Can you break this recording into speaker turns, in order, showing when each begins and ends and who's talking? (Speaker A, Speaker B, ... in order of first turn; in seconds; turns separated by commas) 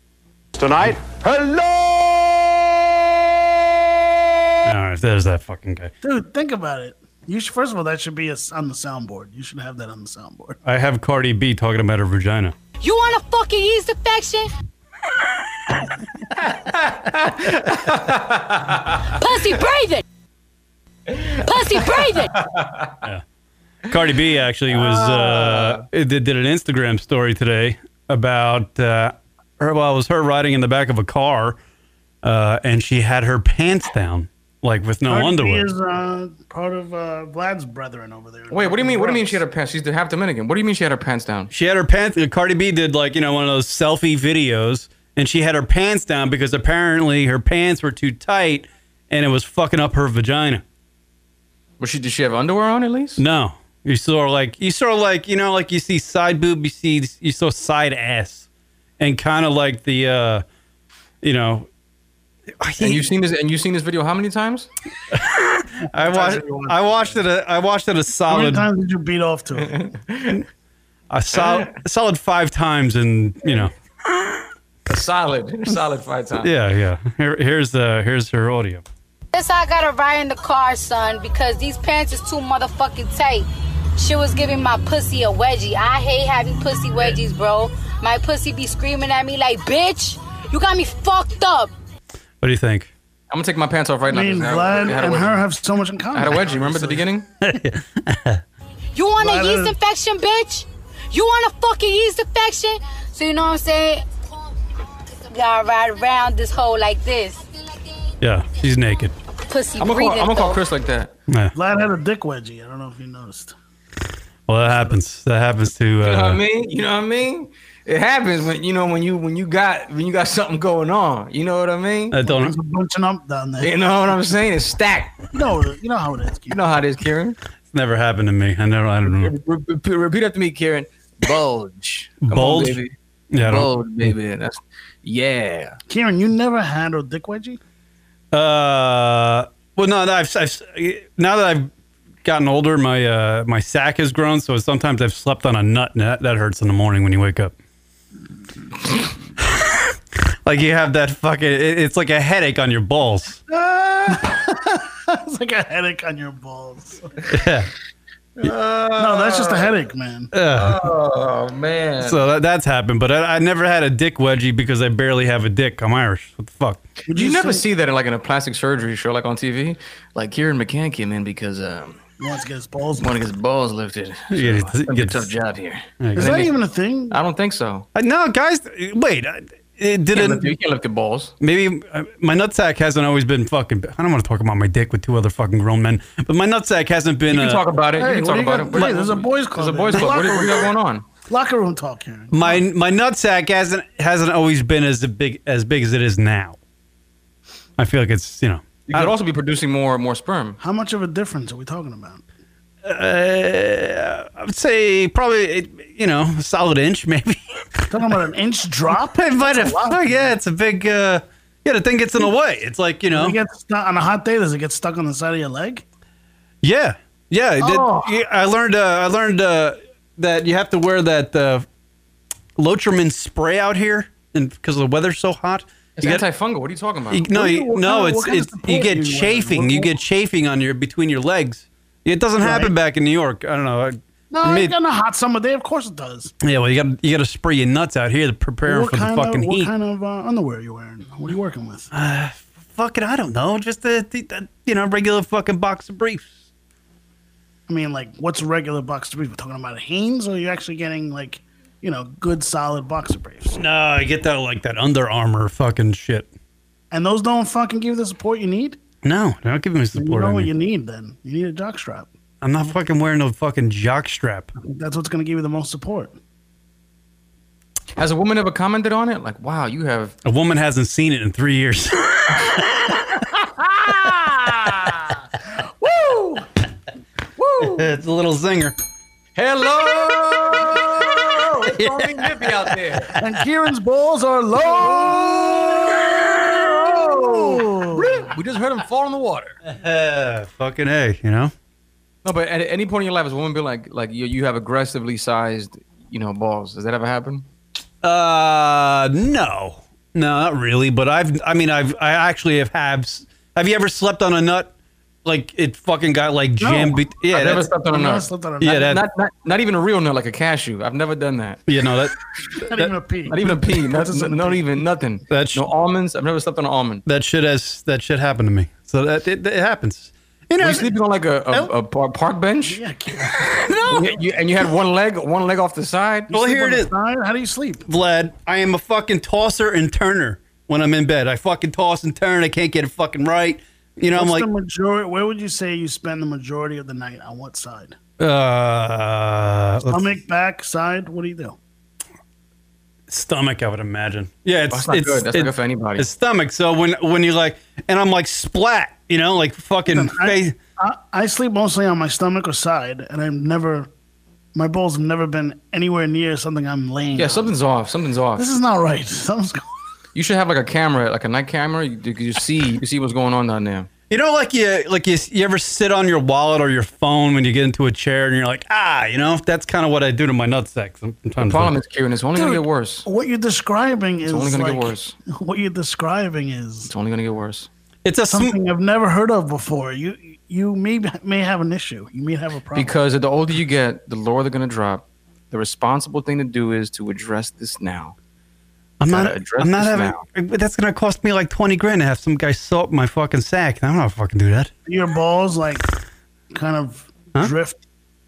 Speaker A: 0.5-3.3, Speaker B: 4.6-5.9, Speaker C: 6.0-10.6, Speaker B: 10.6-12.5, Speaker D: 12.8-14.5, Speaker E: 16.7-18.7, Speaker D: 19.1-20.0, Speaker D: 21.4-22.3, Speaker E: 22.3-22.9, Speaker B: 23.9-31.6, Speaker E: 24.7-25.8, Speaker B: 32.2-35.7, Speaker C: 35.1-39.4, Speaker E: 38.5-41.5, Speaker B: 41.5-50.6, Speaker E: 51.8-53.2, Speaker B: 53.2-58.4, Speaker B: 59.0-60.4, Speaker B: 61.2-61.7, Speaker B: 62.6-63.0, Speaker E: 62.8-64.7, Speaker B: 65.1-68.7, Speaker C: 66.1-66.8, Speaker C: 68.3-69.8, Speaker E: 69.7-70.4, Speaker B: 71.1-73.7, Speaker E: 74.9-76.5, Speaker B: 76.4-78.8, Speaker D: 79.3-91.7, Speaker B: 92.4-92.9, Speaker E: 93.3-95.4, Speaker C: 94.1-97.0, Speaker E: 96.1-97.2, Speaker B: 97.4-98.4, Speaker D: 98.9-104.0, Speaker C: 99.2-99.7, Speaker D: 105.3-107.5, Speaker B: 108.2-109.1, Speaker D: 109.5-110.6, Speaker E: 109.8-111.1, Speaker C: 111.5-113.5, Speaker B: 114.5-116.4, Speaker E: 116.0-122.1, Speaker B: 122.1-122.5, Speaker C: 122.2-123.7, Speaker E: 123.6-125.1, Speaker C: 125.3-126.6, Speaker E: 126.5-127.4, Speaker B: 127.7-129.3, Speaker E: 129.0-135.8, Speaker B: 132.2-132.8, Speaker B: 133.3-134.1, Speaker C: 135.9-137.6, Speaker B: 138.3-141.7, Speaker B: 142.2-147.5, Speaker B: 149.4-153.4, Speaker C: 153.6-157.1, Speaker B: 157.3-157.7, Speaker E: 158.4-159.7, Speaker C: 159.0-160.3, Speaker B: 160.3-160.9, Speaker E: 160.5-162.2, Speaker B: 162.0-166.8, Speaker C: 167.1-167.6, Speaker E: 167.1-172.0, Speaker C: 172.2-173.1, Speaker E: 173.0-176.5, Speaker B: 174.3-175.3, Speaker B: 176.0-176.5, Speaker C: 176.1-177.2, Speaker E: 177.1-177.8, Speaker B: 177.9-180.5, Speaker E: 180.1-181.3, Speaker B: 181.4-187.6, Speaker E: 187.3-191.0, Speaker C: 188.0-190.7, Speaker C: 191.2-192.6, Speaker B: 192.3-196.6, Speaker B: 197.8-199.1, Speaker E: 198.8-200.6, Speaker C: 200.6-202.2, Speaker B: 202.8-207.9, Speaker C: 207.9-210.3, Speaker B: 209.1-213.4, Speaker C: 213.1-215.8, Speaker B: 216.6-221.7, Speaker C: 217.6-218.2, Speaker B: 222.6-226.2, Speaker E: 226.0-227.2, Speaker B: 227.1-234.7, Speaker C: 227.3-229.9, Speaker C: 232.4-232.7, Speaker C: 234.3-236.3, Speaker B: 236.4-239.7, Speaker C: 238.7-241.9, Speaker B: 241.9-246.3, Speaker C: 247.7-253.6, Speaker B: 253.6-256.3, Speaker C: 256.9-258.8, Speaker B: 259.0-260.5, Speaker C: 259.9-262.1, Speaker B: 262.4-264.5, Speaker C: 264.6-266.1, Speaker E: 268.0-270.1, Speaker B: 270.2-272.6, Speaker C: 275.8-276.4, Speaker E: 277.4-277.8, Speaker B: 277.7-278.7, Speaker E: 279.4-283.1, Speaker B: 281.7-282.3, Speaker C: 283.1-285.2, Speaker E: 284.7-289.6, Speaker C: 286.6-288.2, Speaker B: 289.6-291.5, Speaker E: 292.2-297.4, Speaker B: 298.0-304.7, Speaker B: 305.2-307.7, Speaker C: 306.6-307.0, Speaker E: 307.3-311.6, Speaker C: 307.9-308.9, Speaker B: 308.6-309.0, Speaker B: 311.7-312.9, Speaker C: 312.6-314.6, Speaker E: 313.3-317.0, Speaker B: 315.3-315.6, Speaker B: 317.0-320.9, Speaker E: 320.6-322.8, Speaker C: 322.6-323.8, Speaker E: 323.8-326.3, Speaker C: 326.3-327.9, Speaker B: 326.3-326.9, Speaker B: 327.9-334.5, Speaker C: 334.1-337.9, Speaker B: 338.2-340.1, Speaker C: 339.9-341.6, Speaker B: 343.1-350.6, Speaker E: 344.7-346.1, Speaker C: 349.9-353.9, Speaker C: 354.5-357.5, Speaker E: 357.2-358.4, Speaker C: 358.4-359.6, Speaker E: 360.1-363.9, Speaker B: 364.1-371.7, Speaker E: 371.4-373.1, Speaker C: 372.3-376.9, Speaker E: 374.3-375.1, Speaker E: 376.9-377.7, Speaker B: 378.0-378.6, Speaker C: 378.3-382.9, Speaker E: 382.7-388.1, Speaker B: 389.0-394.7, Speaker E: 389.1-390.2, Speaker C: 394.9-395.8, Speaker C: 396.5-397.8